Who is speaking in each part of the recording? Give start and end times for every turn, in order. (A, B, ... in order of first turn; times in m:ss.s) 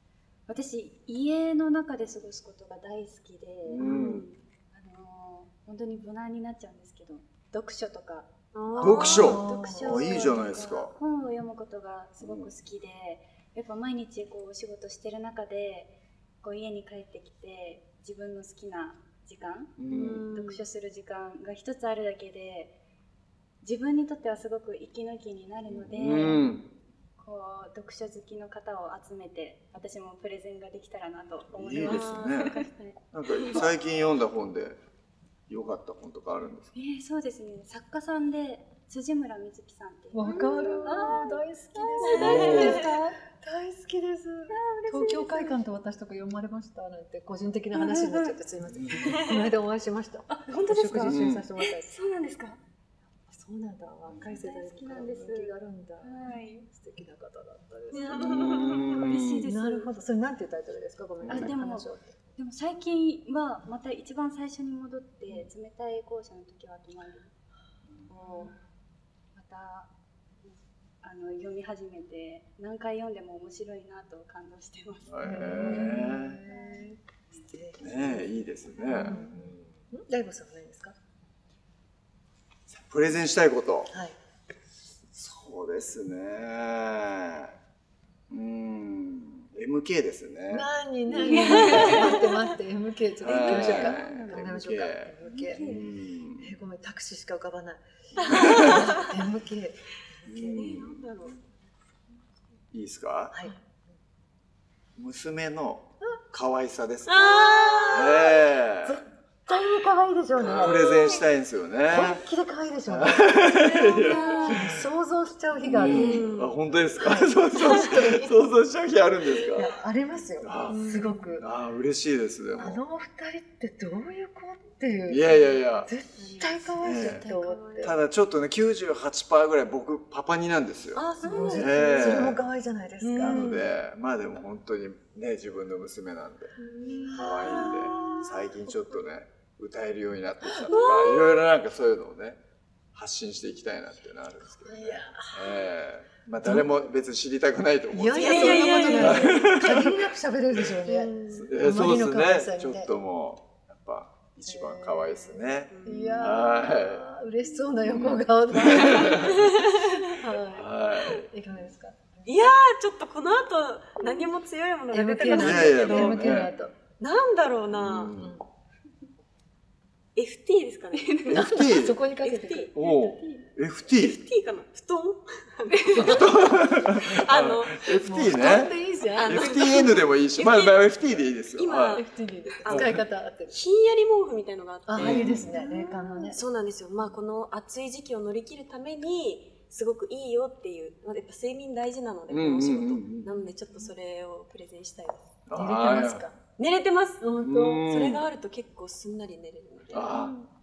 0:00.5-0:19.8 A
0:03.6-0:04.2 B
0:03.8-0:04.3 C
0:08.5-0:09.4 C
0:08.8-0:10.9 B
0:09.0-0:10.4 D
0:12.2-0:12.5 B
0:19.8-0:20.3 B
0:19.9-0:20.6 C
0:20.3-0:22.7 A
0:23.6-0:26.6 A
0:25.7-0:26.7 B
0:27.2-0:33.0 A
0:31.5-0:32.5 B
0:31.8-0:32.8 C
0:33.1-0:34.8 B
0:33.4-0:33.6 C
0:35.5-0:36.7 B
0:36.7-0:43.2 A
0:40.1-0:51.9 D
0:40.2-0:41.0 C
0:42.0-0:42.8 C
0:42.2-0:42.8 B
0:44.5-0:45.7 A
0:47.7-0:48.4 A
0:50.3-0:52.6 A
0:51.0-0:51.4 B
0:53.3-0:58.7 D
0:54.4-0:56.7 A
0:57.9-0:58.9 C
0:58.1-0:59.4 B
0:58.9-0:59.9 A
0:59.4-1:02.1 D
1:01.2-1:01.5 B
1:01.3-1:07.3 A
1:08.1-1:08.6 A
1:09.3-1:09.9 A
1:10.4-1:16.9 A
1:15.1-1:16.4 B
1:15.2-1:19.3 D
1:17.8-1:19.7 B
1:19.9-1:20.9 D
1:22.7-1:23.9 B
1:23.9-1:24.2 D
1:25.1-1:27.5 B
1:28.3-1:30.7 B
1:30.5-1:35.6 D
1:31.1-1:32.3 A
1:31.2-1:32.2 C
1:31.5-1:32.0 B
1:33.2-1:36.5 B
1:33.3-1:34.6 A
1:35.2-1:35.9 A
1:36.4-1:40.8 D
1:38.3-1:39.0 C
1:40.2-1:41.0 B
1:40.5-1:41.4 C
1:42.7-1:43.3 B
1:43.3-1:43.8 D
1:45.0-1:47.3 B
1:47.1-1:48.3 C
1:47.3-1:51.2 D
1:47.9-1:49.0 B
1:50.4-1:52.2 B
1:50.6-1:51.2 C
1:51.9-1:53.4 D
1:52.9-1:54.8 B
1:53.6-1:54.5 C
1:53.9-1:54.5 A
1:54.3-1:56.3 D
1:55.6-1:59.7 B
1:55.8-1:56.6 C
1:57.0-1:58.4 D
1:59.4-2:01.4 D
2:00.4-2:02.8 B
2:00.7-2:01.3 C
2:02.6-2:08.0 D
2:05.1-2:05.9 B
2:06.2-2:07.9 C
2:06.8-2:07.3 B
2:07.8-2:12.4 B
2:10.9-2:12.3 C
2:11.2-2:11.7 A
2:11.2-2:13.7 D
2:13.0-2:13.7 C
2:13.2-2:16.5 B
2:16.6-2:18.2 C
2:16.9-2:18.2 D
2:17.1-2:22.4 B
2:20.7-2:21.4 C
2:22.9-2:30.0 B
2:24.6-2:25.6 D
2:26.4-2:26.9 D
2:27.9-2:32.9 D
2:28.1-2:29.4 C
2:30.8-2:31.5 C
2:31.3-2:37.2 B
2:34.4-2:39.5 D
2:35.7-2:36.4 C
2:37.8-2:39.4 B
2:38.8-2:40.0 C
2:40.1-2:40.7 D
2:40.5-2:41.3 B
2:41.3-2:42.4 D
2:42.2-2:46.2 C
2:44.9-2:46.7 D
2:45.3-2:46.5 B
2:47.0-2:48.2 C
2:47.7-2:48.4 B
2:48.0-2:48.4 D
2:50.2-2:52.7 C
2:51.3-2:52.0 B
2:51.3-2:52.7 D
2:52.8-2:54.2 B
2:52.8-2:53.4 A
2:53.8-3:15.2 C
2:56.0-3:02.0 B
2:58.0-3:00.0 D
3:01.9-3:03.6 D
3:02.7-3:03.0 B
3:04.9-3:06.4 D
3:05.0-3:05.6 B
3:12.3-3:13.3 B
3:15.5-3:16.2 B
3:15.6-3:16.4 D
3:16.6-3:17.2 C
3:17.2-3:17.8 D
3:17.4-3:18.2 B
3:17.8-3:20.3 C
3:19.9-3:20.3 B